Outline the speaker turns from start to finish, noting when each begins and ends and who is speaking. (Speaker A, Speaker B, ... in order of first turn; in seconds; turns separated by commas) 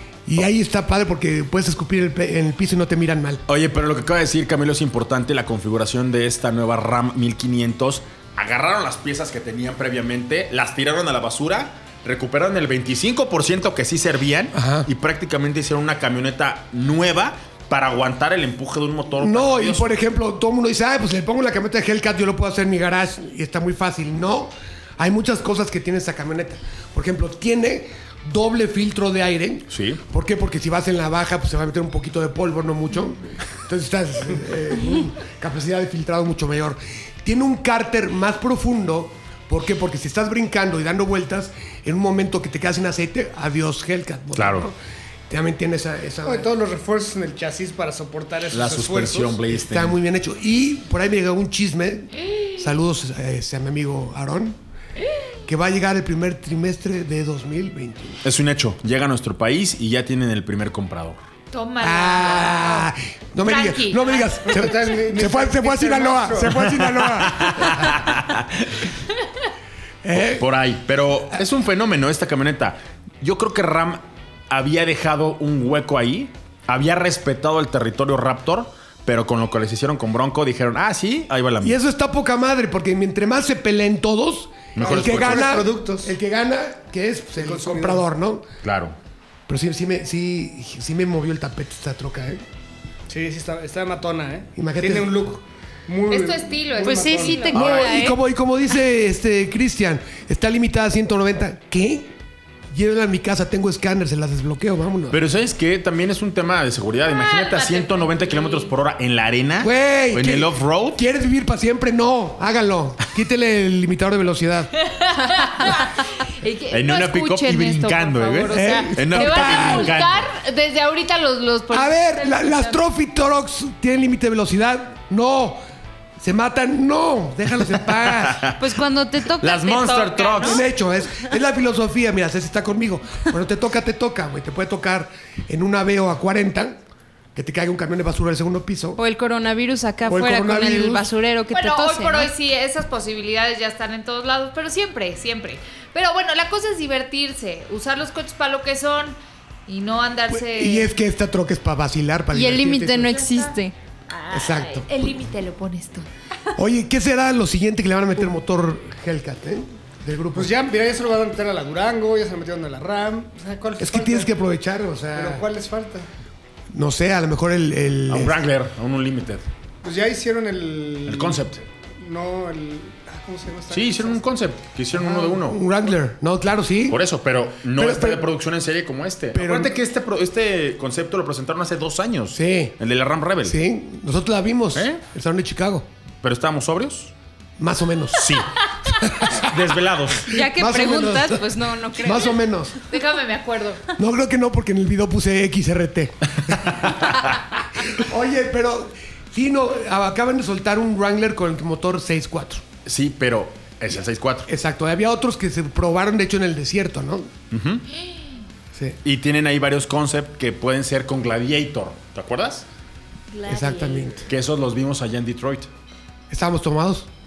Speaker A: 0.3-3.4, Speaker B: 3.5-19.9, Speaker A: 14.5-14.9, Speaker A: 19.2-44.8, Speaker B: 29.7-30.0, Speaker B: 44.4-44.7, Speaker A: 45.3-46.5, Speaker C: 46.2-49.4, Speaker B: 48.5-50.0, Speaker A: 49.5-54.6, Speaker D: 52.2-52.7, Speaker A: 55.5-58.2, Speaker B: 58.2-61.2, Speaker D: 61.5-62.9, Speaker A: 61.8-67.9, Speaker D: 63.4-64.3, Speaker C: 64.5-66.5, Speaker B: 66.5-68.8, Speaker A: 70.0-70.5, Speaker B: 70.2-81.8, Speaker A: 81.6-88.5, Speaker B: 84.8-85.6, Speaker C: 84.8-86.1, Speaker C: 87.4-88.0, Speaker B: 88.6-89.0, Speaker A: 89.5-92.4, Speaker C: 93.1-97.6, Speaker A: 94.6-95.2, Speaker D: 96.1-97.5, Speaker E: 96.8-98.2, Speaker B: 97.5-98.0, Speaker A: 97.5-102.1, Speaker A: 102.7-105.2, Speaker B: 105.1-111.0, Speaker D: 107.1-108.7, Speaker A: 109.6-114.7, Speaker D: 114.8-122.8, Speaker B: 116.7-120.3, Speaker A: 118.5-120.0, Speaker A: 121.7-125.6, Speaker A: 126.2-128.5, Speaker B: 128.0-128.7, Speaker E: 128.6-130.5, Speaker B: 129.4-130.7, Speaker D: 130.1-130.5, Speaker A: 130.4-136.8, Speaker A: 137.3-139.0, Speaker E: 139.0-142.3, Speaker A: 140.1-141.1, Speaker D: 141.5-150.9, Speaker A: 150.3-153.2, Speaker E: 152.3-153.7, Speaker D: 153.1-153.5, Speaker D: 154.1-156.1, Speaker A: 154.3-154.9, Speaker A: 156.6-160.5, Speaker C: 160.3-164.3, Speaker A: 163.8-165.4, Speaker C: 165.1-166.1, Speaker A: 166.7-168.4, Speaker B: 168.1-169.5, Speaker C: 169.8-174.2, Speaker B: 171.1-171.6, Speaker B: 173.7-175.6, Speaker C: 174.9-175.4, Speaker A: 175.4-177.0, Speaker B: 176.9-183.6, Speaker A: 177.7-178.3, Speaker A: 179.3-179.7, Speaker A: 182.3-182.8, Speaker A: 183.4-185.9, Speaker B: 184.8-185.0, Speaker B: 186.2-187.1, Speaker A: 187.6-188.4, Speaker B: 188.2-188.6, Speaker A: 189.0-189.5, Speaker B: 189.3-190.3, Speaker E: 190.3-192.4, Speaker A: 190.3-192.8, Speaker D: 192.9-193.8, Speaker A: 194.0-196.9, Speaker B: 196.7-197.1, Speaker A: 197.8-202.6, Speaker B: 202.9-204.5, Speaker A: 204.5-207.3, Speaker B: 207.5-207.9, Speaker D: 207.9-208.3, Speaker B: 209.0-212.7, Speaker D: 213.3-214.2, Speaker A: 213.5-214.3, Speaker B: 214.3-215.7, Speaker A: 216.3-217.1